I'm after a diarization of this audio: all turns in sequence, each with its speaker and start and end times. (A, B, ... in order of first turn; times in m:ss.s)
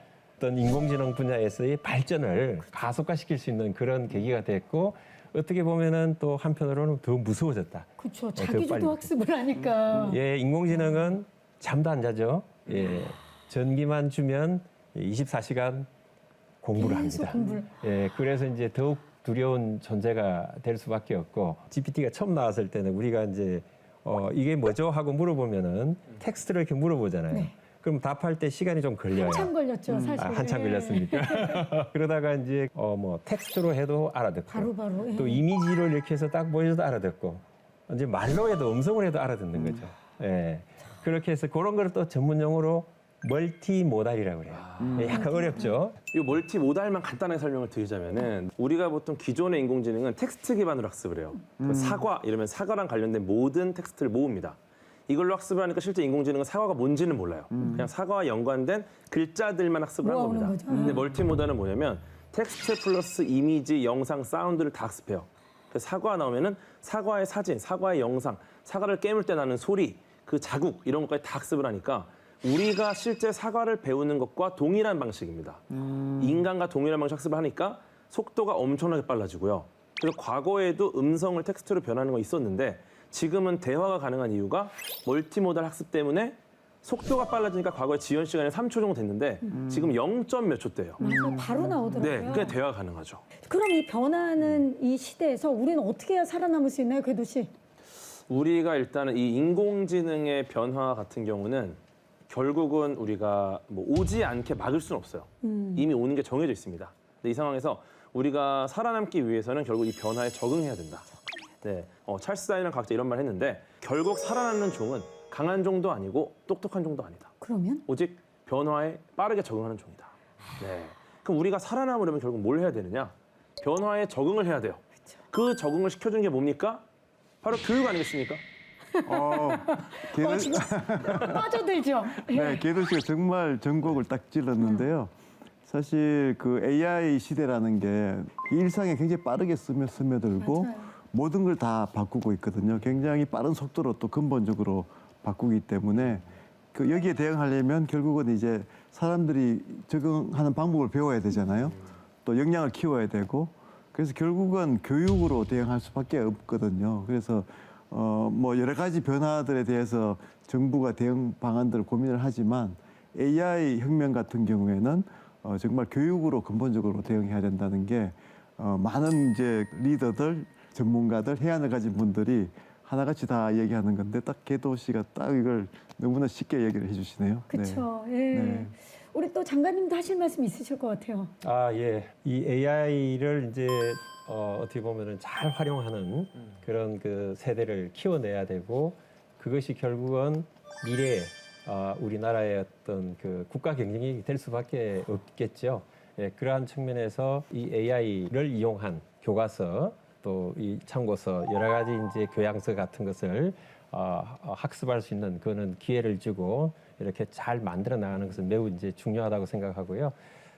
0:00.4-0:09.1 A
0:08.0-0:10.2 B
0:10.1-0:15.9 A
0:16.6-0:29.5 A
0:16.8-0:17.7 B
0:29.1-0:31.7 B
0:30.1-0:46.0 A
0:34.5-0:35.4 B
0:44.5-0:45.2 C
0:45.1-0:45.7 B
0:46.1-1:15.6 C
0:51.6-0:52.0 D
0:57.5-0:57.9 D
1:00.0-1:01.0 B
1:15.8-1:16.2 D
1:16.2-1:31.0 C
1:31.0-1:32.6 B
1:32.0-1:33.2 C
1:33.4-1:37.5 B
1:38.3-1:51.1 C
1:45.4-1:45.9 B
1:51.6-2:06.8 C
1:57.4-1:57.8 B
2:07.4-2:08.4 C
2:08.9-2:12.6 B
2:09.0-2:11.4 D
2:12.2-2:15.1 D
2:14.6-2:14.9 B
2:15.6-2:58.7 D
2:20.4-2:20.9 B
2:57.5-3:01.3 B
3:01.4-3:30.1 A